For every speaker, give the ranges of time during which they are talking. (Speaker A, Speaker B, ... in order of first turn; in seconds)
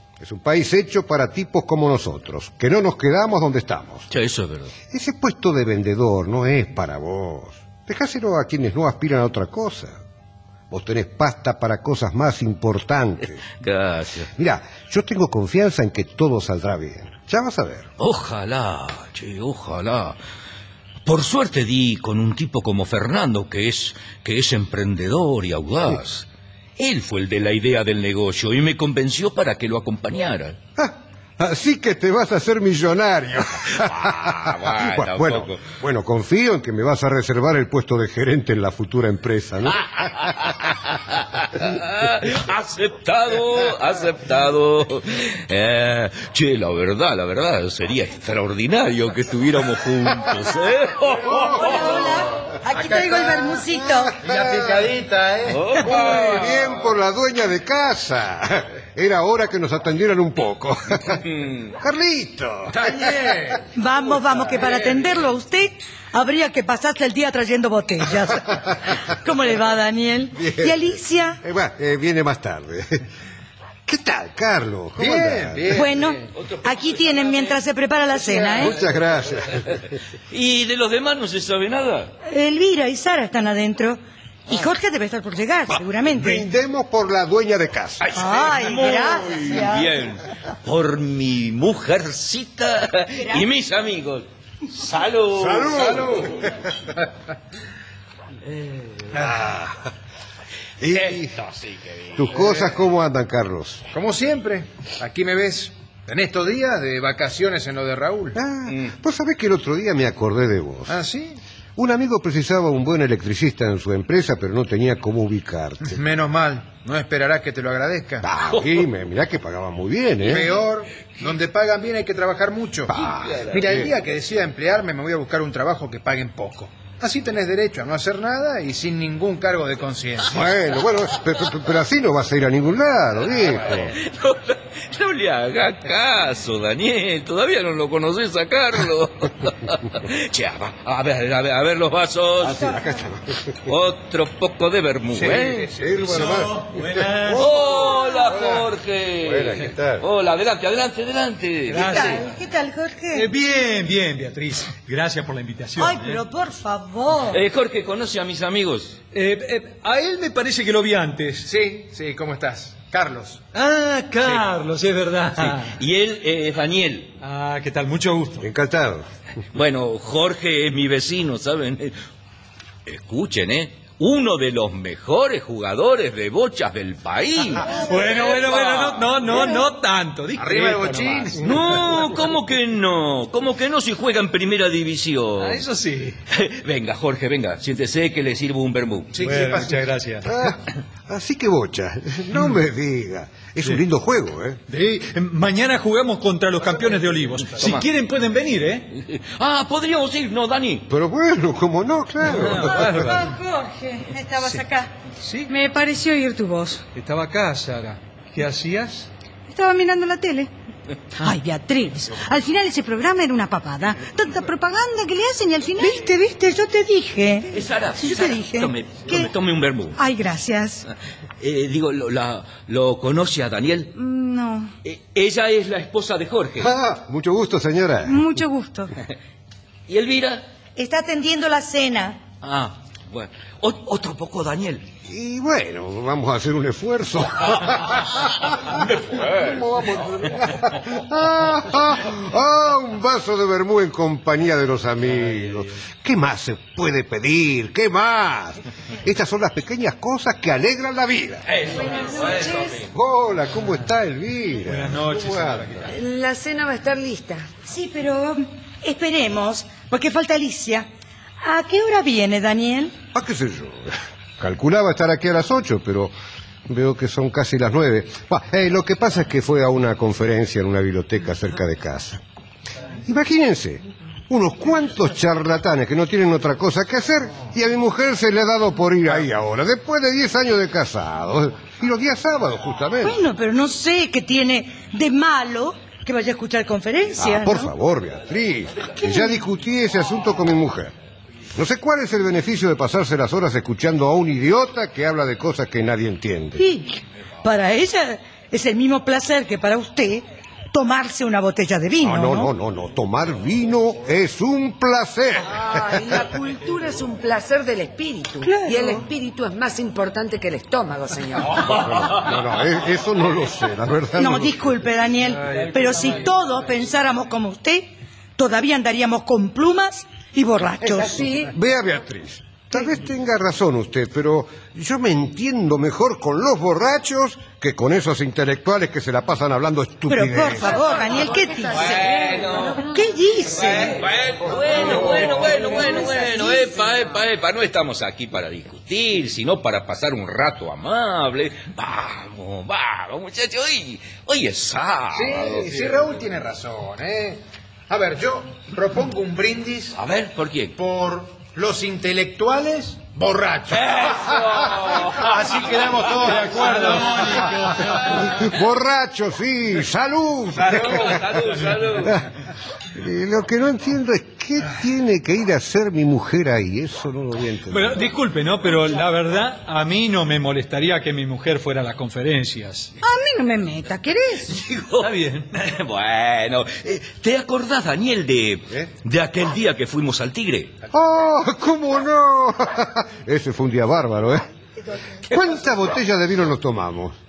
Speaker A: 0.2-4.1, 4.9-10.0, 10.7-13.4, 14.3-17.9, 30.8-40.5, 51.3-51.9, 54.2-54.9, 55.8-61.3, 61.8-63.6, 70.4-70.9, 71.4-73.1, 73.9-75.8, 78.5-79.8, 86.1-88.1, 95.3-96.5, 99.2-99.8, 100.8-101.4, 102.2-103.9, 108.3-111.0, 111.8-116.0, 118.2-120.5, 122.9-123.9, 130.3-133.9, 142.4-143.7, 145.2-148.6, 149.2-150.1, 168.4-169.1, 181.3-182.2, 190.2-194.6, 200.9-203.2, 226.6-228.2, 235.1-251.5, 252.9-255.8, 263.1-266.1, 266.7-272.2, 273.0-283.2, 287.2-290.9, 291.6-296.6, 302.0-305.7, 311.6-314.7, 321.4-330.8, 358.1-361.2, 362.0-362.3, 362.9-368.0, 380.9-384.5, 385.3-387.2
Speaker B: 4.1-4.8, 13.6-14.3, 18.0-20.2, 21.1-30.6, 33.7-35.6, 40.0-52.1, 55.5-56.7, 61.4-61.7, 76.3-77.6, 80.3-82.2, 88.0-96.4, 98.5-99.2, 100.9-102.5, 123.0-123.8, 133.9-142.8, 143.7-145.7, 147.2-152.2, 157.3-159.0, 165.4-167.2, 169.5-171.9, 172.9-179.1, 181.4-185.6, 186.3-189.2, 198.9-200.9, 217.5-220.0, 221.4-223.9, 224.8-226.7, 229.9-230.4, 232.4-234.9, 238.6-239.6, 251.5-252.9, 331.7-332.9, 333.5-346.2, 349.9-350.8, 353.7-355.6, 360.7-362.2, 374.5-380.8
Speaker C: 51.5-54.1, 63.7-71.4, 75.7-78.8, 82.2-86.5, 88.2-89.9, 93.2-93.5, 151.7-153.3, 155.8-157.4, 215.8-219.3, 230.8-232.2, 257.7-260.9, 261.4-263.0, 283.0-287.7, 289.0-289.4, 296.6-302.5, 308.5-308.9, 314.2-321.3, 330.1-332.1, 332.8-334.0
Speaker D: 52.7-53.4, 54.2-56.2, 62.7-63.6, 75.0-76.3, 95.8-96.4, 99.2-99.4, 103.9-108.4, 110.9-111.4, 115.8-118.3, 120.2-122.9, 123.5-130.4, 161.4-163.5, 164.2-164.5, 180.4-181.4, 189.2-189.9, 345.1-350.0, 350.8-357.9
Speaker E: 52.8-53.6, 202.6-204.9, 205.5-206.8, 209.5-210.5, 211.2-216.1, 220.0-220.9, 223.9-224.7, 228.0-228.9, 373.0-374.6
Speaker F: 146.1-147.5, 151.7-152.3, 153.1-156.2, 159.1-161.5, 163.6-165.8, 167.2-168.4, 177.6-181.4, 185.4-186.2, 189.2-190.3, 194.7-198.9, 202.3-203.2, 205.2-205.5, 206.9-209.1, 254.6-255.9, 356.3-358.2, 367.7-372.9, 375.0-375.5
Speaker G: 251.8-252.7, 255.9-257.5, 305.5-311.8, 321.0-321.5